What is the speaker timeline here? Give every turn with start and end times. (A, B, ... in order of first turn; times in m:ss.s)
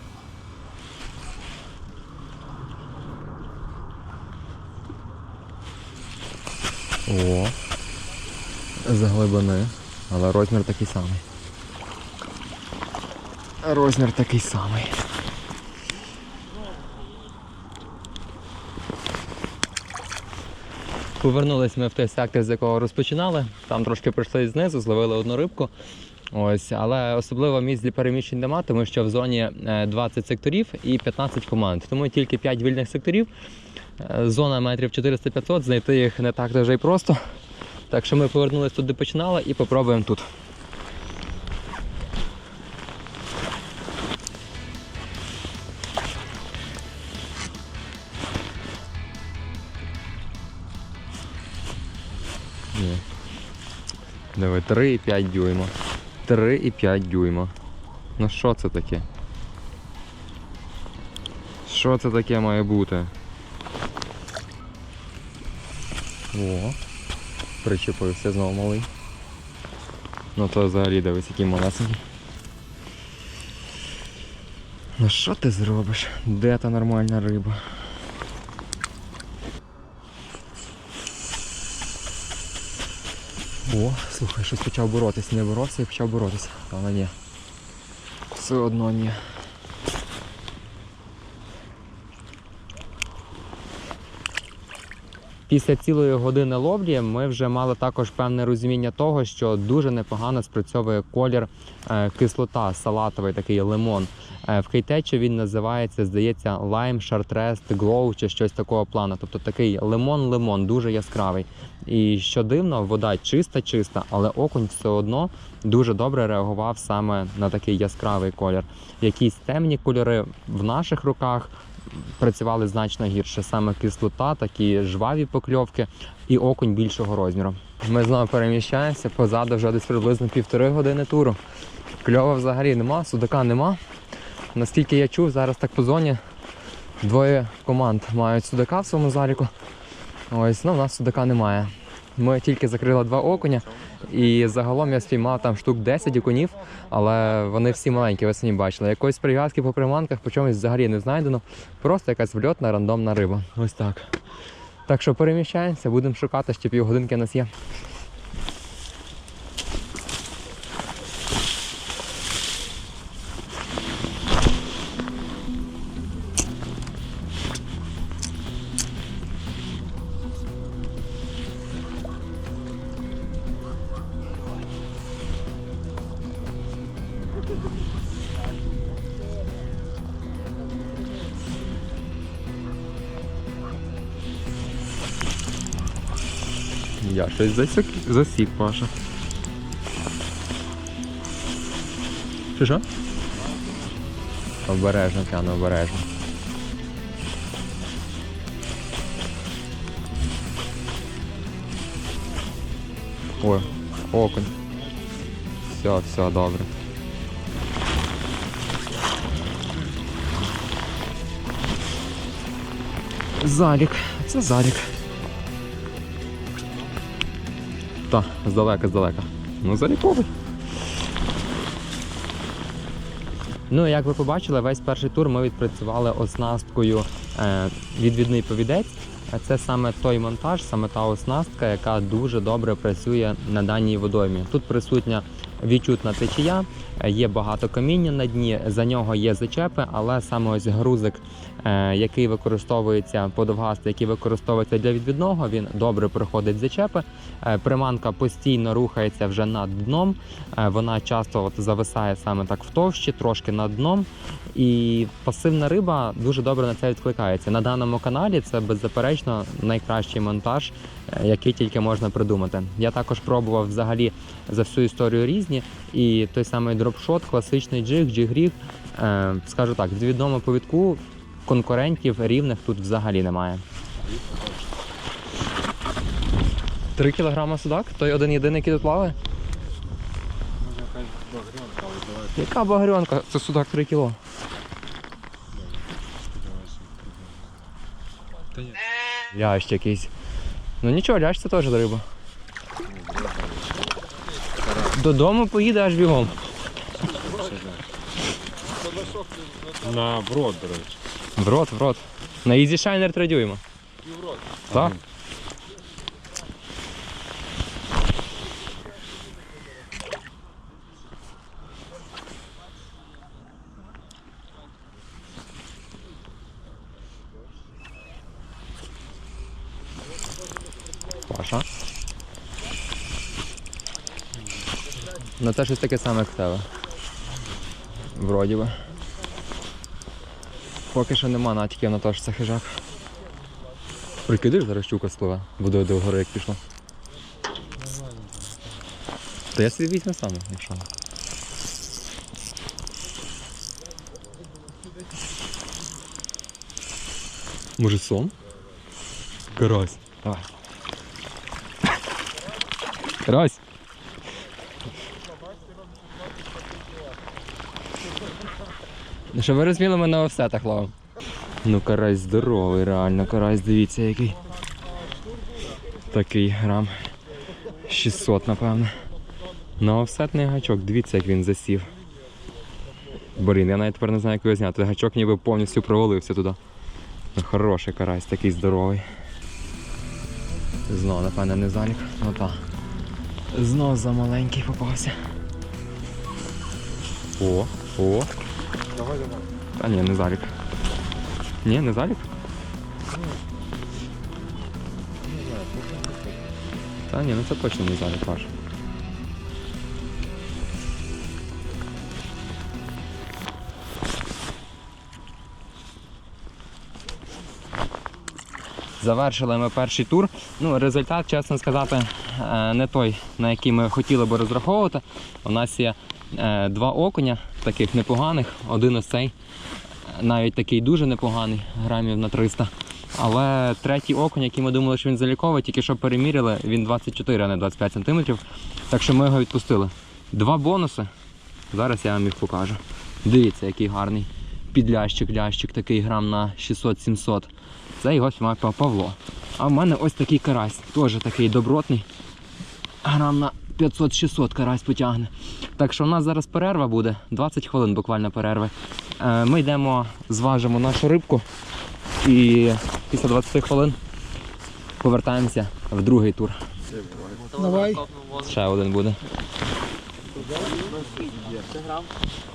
0:07.1-0:07.6 A
0:08.8-0:11.2 A
0:13.6-0:15.0 A
0:21.2-0:25.7 A
0:26.3-0:33.3 A
0:34.0-0:37.2 A
0:37.9-0:40.3 A
0:52.7-0:53.0 A
0:54.4-0:55.7 A
0:56.3-0:57.5 A
0:58.2-0:59.1 A
1:01.7-1:03.1 A
1:06.3-1:06.8 A
1:07.6-1:08.9 A
1:10.4-1:12.0 A
1:15.0-1:17.7 A
1:23.7-1:27.1 A
1:28.3-1:29.2 A
1:35.5-2:11.4 A
2:12.0-2:13.8 A
2:14.5-2:16.2 A
2:17.0-2:19.5 A
2:20.3-2:34.1 A
2:34.9-2:37.5 A
3:07.0-3:08.9 A
3:12.6-3:12.8 A
3:14.7-3:16.1 A
3:23.4-3:24.5 A
3:25.6-3:26.7 A
3:33.4-3:34.9 A
3:38.1-3:40.3 A
3:43.7-4:33.6 A
4:34.1-4:34.5 B
4:37.0-4:39.2 A
4:40.6-4:42.4 B
4:42.4-4:44.2 A
4:45.5-4:47.6 B
4:48.5-4:48.8 B
4:49.3-4:50.1 A
4:50.8-4:52.0 A
4:52.9-4:53.7 B
4:55.0-4:56.4 A
4:57.2-4:57.8 B
4:59.8-5:01.0 B
5:01.4-5:03.6 A
5:04.7-5:05.0 A
5:04.7-5:05.0 B
5:21.3-5:21.6 A
5:25.4-5:26.7 A
5:28.1-5:28.8 A
5:30.9-5:32.8 A
5:34.2-5:36.6 A
5:37.8-5:38.7 B
5:39.6-5:40.9 A
5:47.8-5:48.3 A
5:49.5-5:50.4 A
5:53.2-5:53.6 A
5:59.3-6:00.9 A
6:01.6-6:04.4 A
6:06.1-6:07.0 A
6:07.8-6:09.0 A
6:09.8-6:11.9 A
6:13.4-6:16.6 A
6:17.4-6:19.1 A
6:20.9-6:22.6 A
6:23.5-6:25.2 A
6:27.4-6:28.3 A
6:28.9-6:29.5 B
6:29.8-6:30.5 A
6:31.6-6:32.3 A
6:33.1-6:33.4 B
6:35.2-6:36.6 B
6:37.1-6:38.5 A
6:49.0-6:59.3 A
7:00.1-7:11.1 A
7:11.7-7:22.1 A
7:23.0-7:31.5 A
7:32.2-7:34.0 A
7:35.0-7:36.6 A
7:36.9-7:37.4 B
7:37.5-7:38.6 C
7:38.4-7:39.2 A
7:40.3-7:42.1 C